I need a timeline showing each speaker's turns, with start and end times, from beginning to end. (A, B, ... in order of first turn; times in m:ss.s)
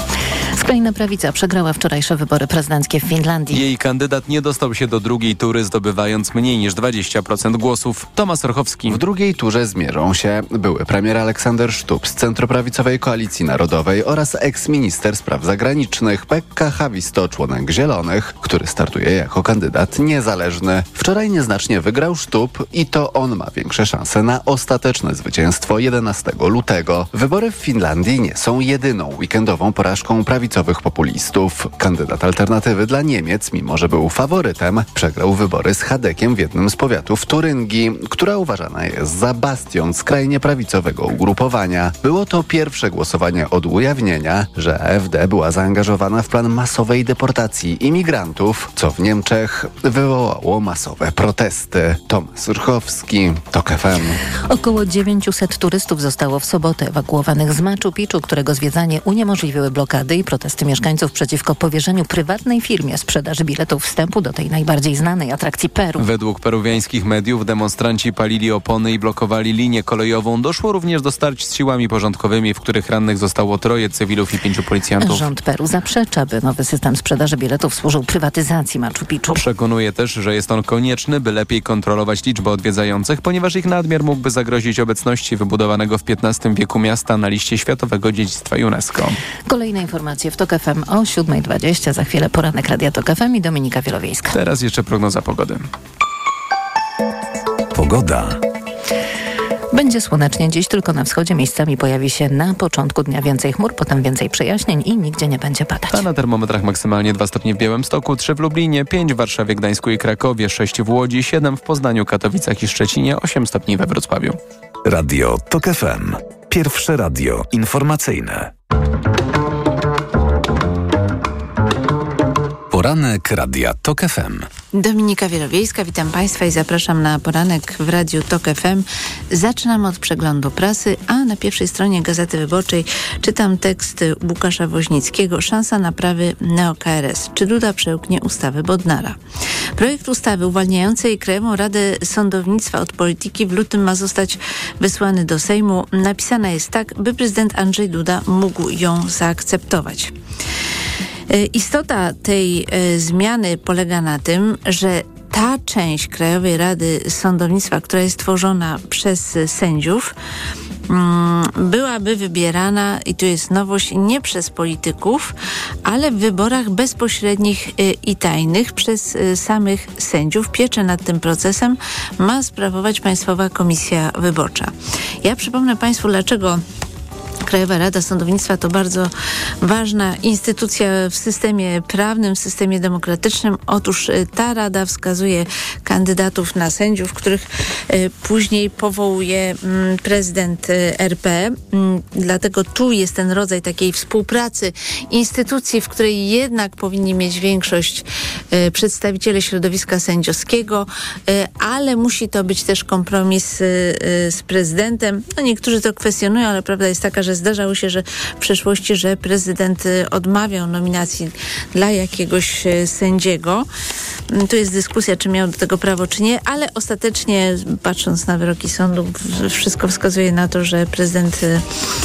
0:00.6-0:03.6 A
0:03.5-0:09.0 B
0:08.9-0:54.2 C
0:54.3-1:06.1 A
1:06.0-1:15.3 B
1:15.0-1:19.4 A
1:19.3-1:29.2 B
1:29.5-1:34.4 A
1:34.3-1:35.6 B
1:37.7-1:38.4 D
1:39.7-1:46.1 A
1:45.9-1:54.4 B
1:54.8-1:58.5 D
2:02.7-2:04.5 D
2:04.7-2:19.2 E
2:19.8-2:30.1 E
2:31.3-2:40.1 E
2:40.9-2:45.3 E
2:45.8-2:56.6 E
2:57.5-3:33.7 E
3:34.3-3:41.7 E